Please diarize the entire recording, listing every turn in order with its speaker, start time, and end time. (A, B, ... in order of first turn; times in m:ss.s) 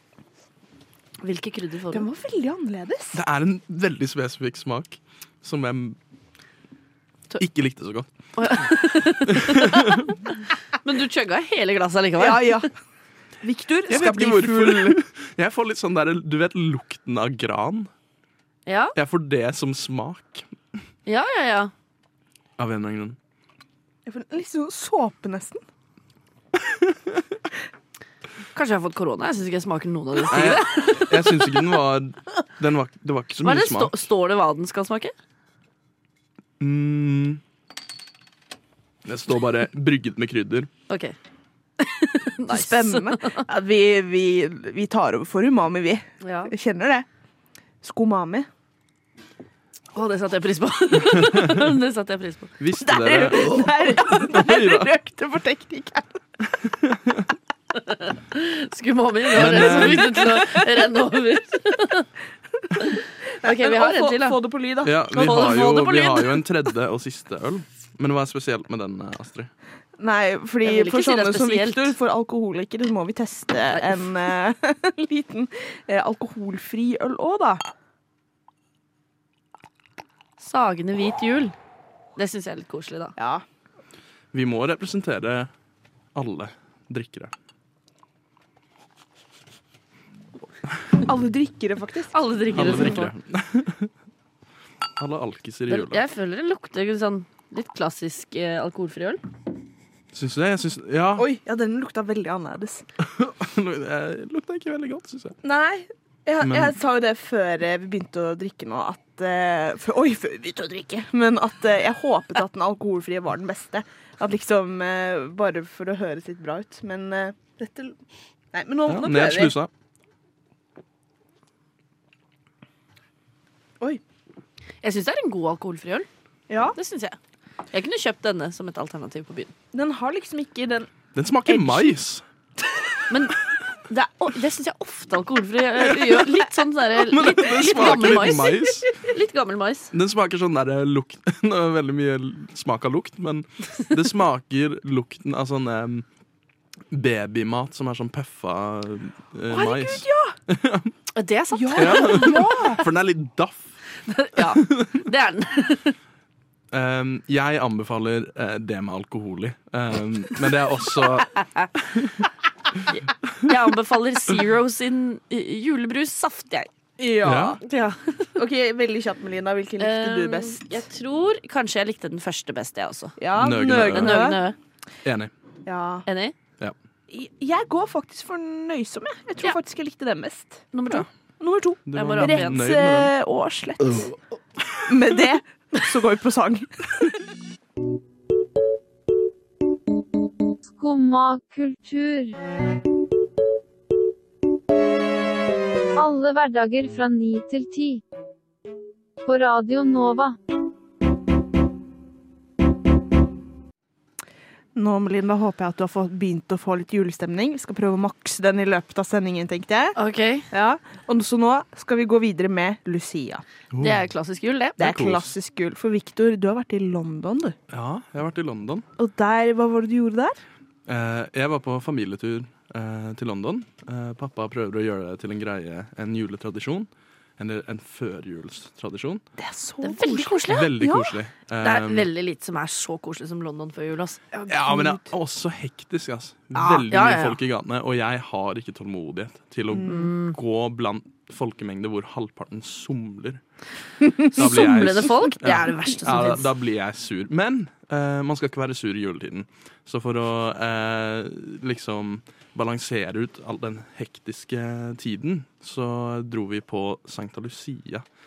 0:01.2-0:02.1 A
0:01.9-0:03.2 B
0:03.1-0:06.0 C
0:07.4-0:08.7 C
0:08.4-0:10.2 A
0:09.3-0:10.1 C
0:10.8-0:12.6 A
0:12.2-0:12.7 B
0:13.4-0:15.0 B
0:13.9-0:17.9 C
0:18.7-0:19.0 A
0:19.0-0:20.5 C
0:21.1-0:21.7 A
0:22.6-0:23.2 C
0:24.1-0:25.6 B
0:28.5-0:31.3 A
0:30.3-0:33.9 C
0:33.4-0:35.1 A
0:36.6-0:37.4 C
0:39.0-0:40.7 C
0:40.9-0:41.2 A
0:41.8-0:43.4 A
0:42.5-0:47.1 B
0:46.2-0:46.5 A
0:47.8-0:48.5 B
0:49.9-0:52.5 A
0:52.6-0:54.9 C
0:52.8-0:56.2 B
0:56.6-0:57.2 C
0:57.9-1:02.1 A
0:59.3-1:00.2 C
0:59.4-1:00.6 B
1:02.8-1:04.4 A
1:03.4-1:06.1 B
1:04.8-1:09.5 C
1:05.2-1:06.3 A
1:10.0-1:17.6 B
1:10.6-1:12.0 A
1:20.4-1:21.6 A
1:22.2-1:23.2 A
1:23.2-1:23.4 B
1:24.3-1:25.5 C
1:26.2-1:27.3 C
1:31.0-1:33.0 B
1:32.1-1:33.1 A
1:32.5-1:33.9 C
1:35.0-1:36.0 C
1:35.7-1:39.2 A
1:40.1-1:41.3 C
1:41.2-1:42.8 B
1:43.0-1:45.4 C
1:45.4-1:58.0 B
1:46.4-1:46.8 C
1:58.5-1:59.6 B
1:58.9-1:59.7 C
2:04.8-2:06.1 A
2:06.5-2:06.8 B
2:06.7-2:07.2 A
2:07.7-2:09.5 A
2:09.7-2:10.9 B
2:11.2-2:12.2 C
2:11.5-2:11.8 B
2:13.1-2:13.4 A
2:13.9-2:19.9 A
2:16.0-2:16.3 C
2:17.0-2:18.9 C
2:19.9-2:26.0 C
2:26.9-2:30.9 C
2:29.5-2:30.3 B
2:31.2-2:32.4 A
2:31.5-2:32.8 B
2:31.8-2:33.7 C
2:34.1-2:36.0 A
2:34.4-2:35.0 C
2:36.7-2:42.2 C
2:41.4-2:41.7 A
2:42.9-2:46.7 A
2:47.0-2:47.6 B
2:47.2-2:47.6 C
2:47.6-2:48.3 A
2:48.4-2:50.8 B
2:49.8-2:53.2 A
2:53.2-2:54.4 B
2:53.4-2:54.4 C
2:53.9-2:54.6 A
2:55.0-2:55.3 C
2:55.6-2:56.0 B
2:56.1-2:56.4 A
2:57.1-3:00.7 B
3:00.7-3:01.1 A
3:01.4-3:04.1 B
3:01.9-3:03.1 C
3:01.9-3:02.6 A
3:04.8-3:07.0 B
3:10.7-3:12.4 D
3:16.0-3:18.0 D
3:19.2-3:20.4 D
3:24.8-3:30.0 B
3:30.0-3:30.5 A
3:30.5-3:33.4 B
3:33.7-3:34.1 C
3:33.8-3:34.8 A
3:34.8-3:37.6 B
3:34.8-3:35.3 C
3:37.7-3:38.8 C
3:39.0-3:40.4 B
3:40.9-3:49.2 C
3:49.4-3:51.1 B
3:49.8-3:50.8 A
3:50.5-3:52.1 C
3:51.6-3:54.5 A
3:54.5-4:03.4 C
3:54.7-3:55.0 B
3:56.6-3:57.4 A
3:59.7-4:00.1 B
3:59.8-4:00.4 A
4:04.2-4:18.0 C
4:04.3-4:06.5 A